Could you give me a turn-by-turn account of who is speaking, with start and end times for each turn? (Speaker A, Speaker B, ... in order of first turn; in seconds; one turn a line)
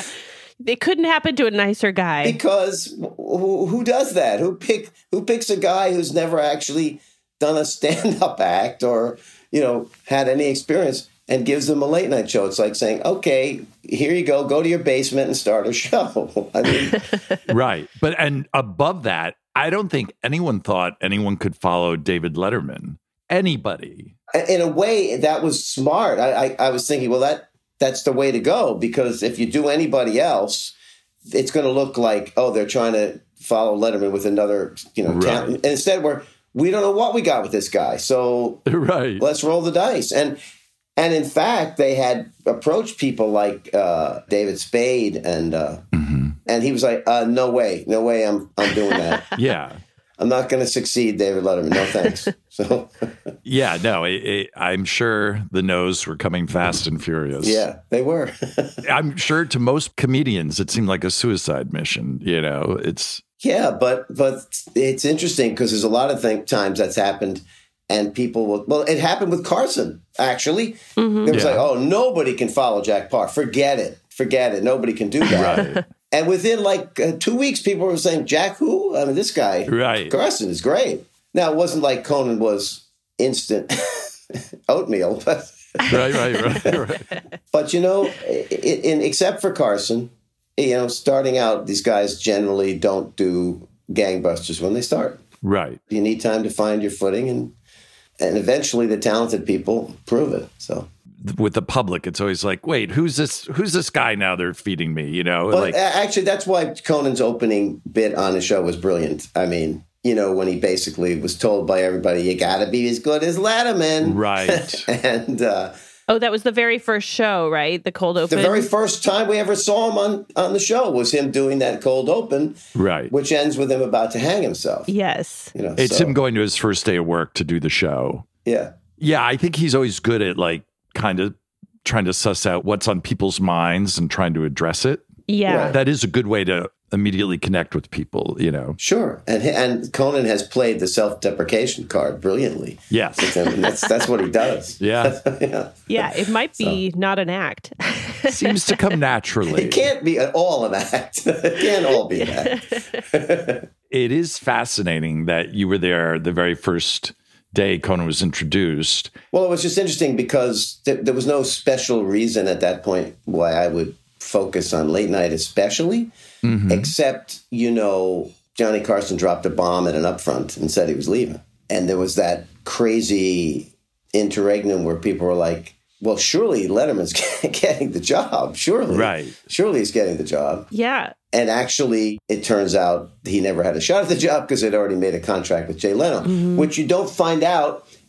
Speaker A: 0.6-2.4
Speaker B: 2.2-17.0
Speaker C: 17.5-24.1
Speaker B: 24.3-30.7
Speaker B: 31.3-38.6
Speaker C: 35.0-35.5
Speaker C: 38.7-39.2
Speaker B: 39.2-40.4
Speaker B: 41.0-45.8
Speaker C: 45.9-46.3
Speaker B: 46.5-49.3
Speaker C: 49.4-49.8
Speaker B: 50.2-53.1
Speaker C: 53.4-57.6
Speaker B: 57.4-58.8
Speaker C: 58.8-63.2
Speaker B: 63.4-86.8
Speaker A: 71.0-71.3
Speaker C: 71.3-71.7
Speaker C: 75.3-75.8
Speaker C: 79.7-80.1
Speaker C: 85.9-87.0
Speaker B: 87.5-95.2
Speaker C: 95.4-95.8
Speaker B: 95.9-97.5
Speaker B: 98.2-100.9
Speaker C: 101.2-105.8
Speaker B: 105.5-115.7
Speaker C: 114.0-114.9
Speaker A: 116.1-118.7
Speaker B: 118.3-122.6
Speaker C: 122.7-123.1
Speaker B: 123.1-124.9
Speaker A: 124.9-125.5
Speaker B: 125.5-126.1
Speaker C: 125.8-128.2
Speaker B: 128.4-128.8
Speaker C: 129.0-135.0
Speaker A: 135.3-135.8
Speaker B: 135.5-135.8
Speaker C: 135.7-138.8
Speaker B: 138.8-146.8
Speaker C: 142.9-143.4
Speaker C: 144.8-145.2
Speaker A: 145.9-148.8
Speaker C: 148.3-149.8
Speaker B: 149.4-153.7
Speaker A: 152.1-153.0
Speaker C: 153.9-159.1
Speaker B: 159.3-166.1
Speaker C: 166.4-166.9
Speaker B: 166.7-180.7
Speaker C: 178.9-179.3
Speaker A: 180.7-181.1
Speaker B: 181.3-187.9
Speaker A: 186.2-186.7